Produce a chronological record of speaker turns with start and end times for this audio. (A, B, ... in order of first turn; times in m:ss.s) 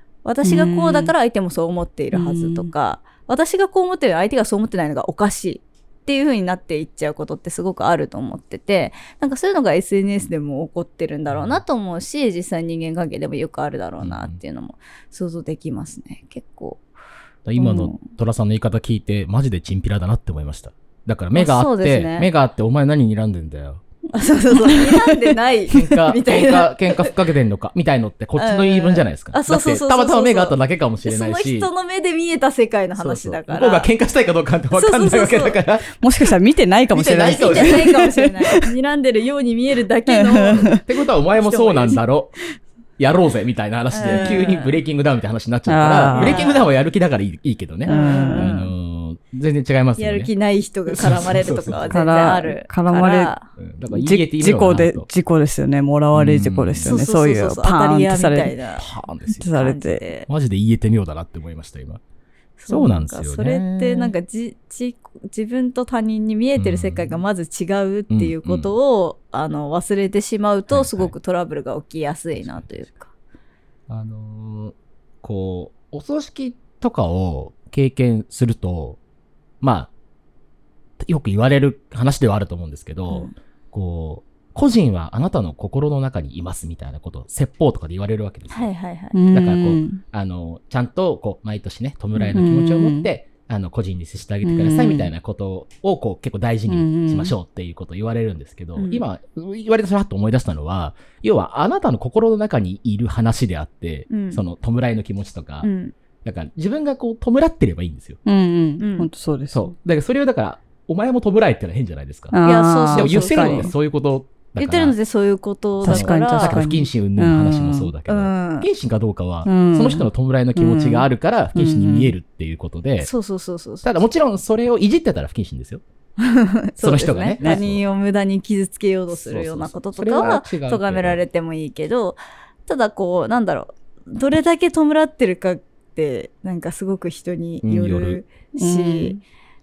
0:00.2-0:16.8 A
0:00.4-0:01.1 B
0:02.1-0:02.7 B
0:11.3-0:11.6 C
0:14.0-0:14.4 C
0:17.4-0:23.8 C
0:17.6-0:18.0 A
0:21.3-0:22.3 A
0:24.1-0:27.1 A
0:24.6-0:25.3 B
0:25.7-0:31.7 C
0:28.4-0:33.9 A
0:33.0-0:36.3 C
0:34.7-0:35.6 A
0:36.0-0:38.7 B
0:36.9-0:38.0 C
0:37.2-0:40.8 A
0:40.1-0:40.8 B
0:40.7-0:42.3 C
0:41.3-0:42.0 A
0:43.0-0:50.3 C
0:43.9-0:44.8 A
0:44.0-0:44.4 B
0:45.7-0:46.4 B
0:46.1-0:46.7 A
0:47.8-0:48.6 B
0:47.9-0:48.6 A
0:50.0-0:53.5 A
0:50.9-0:52.0 C
0:51.9-0:53.3 B
0:53.6-0:55.1 C
0:53.9-0:58.5 B
0:56.1-0:57.0 C
0:56.8-0:58.9 A
0:58.8-0:59.6 C
0:59.4-1:00.0 B
0:59.5-1:00.3 A
1:00.3-1:02.0 C
1:02.6-1:13.1 A
1:02.7-1:04.1 C
1:06.6-1:07.2 C
1:08.1-1:08.7 C
1:10.7-1:11.1 C
1:12.3-1:12.9 C
1:13.9-1:19.0 C
1:19.6-1:19.9 C
1:21.0-1:28.7 C
1:23.1-1:23.3 A
1:28.5-1:29.2 A
1:29.1-1:30.0 B
1:29.3-1:45.7 C
1:32.2-1:33.1 B
1:34.4-1:35.1 B
1:36.7-1:37.3 B
1:38.8-1:39.0 A
1:44.1-1:44.4 A
1:45.6-1:45.9 A
1:46.2-1:48.2 C
1:48.2-1:49.7 B
1:48.8-1:49.1 A
1:49.5-1:52.4 C
1:52.3-1:53.7 B
1:52.4-1:53.7 A
1:52.9-1:54.9 C
1:54.6-1:56.6 A
1:55.8-2:03.1 C
1:55.8-1:57.9 B
1:58.1-1:58.7 A
1:59.4-2:02.1 B
2:03.0-2:03.9 A
2:03.8-2:05.8 C
2:06.2-2:19.2 A
2:06.8-2:07.8 C
2:09.1-2:11.2 C
2:17.6-2:18.2 C
2:18.6-2:19.2 B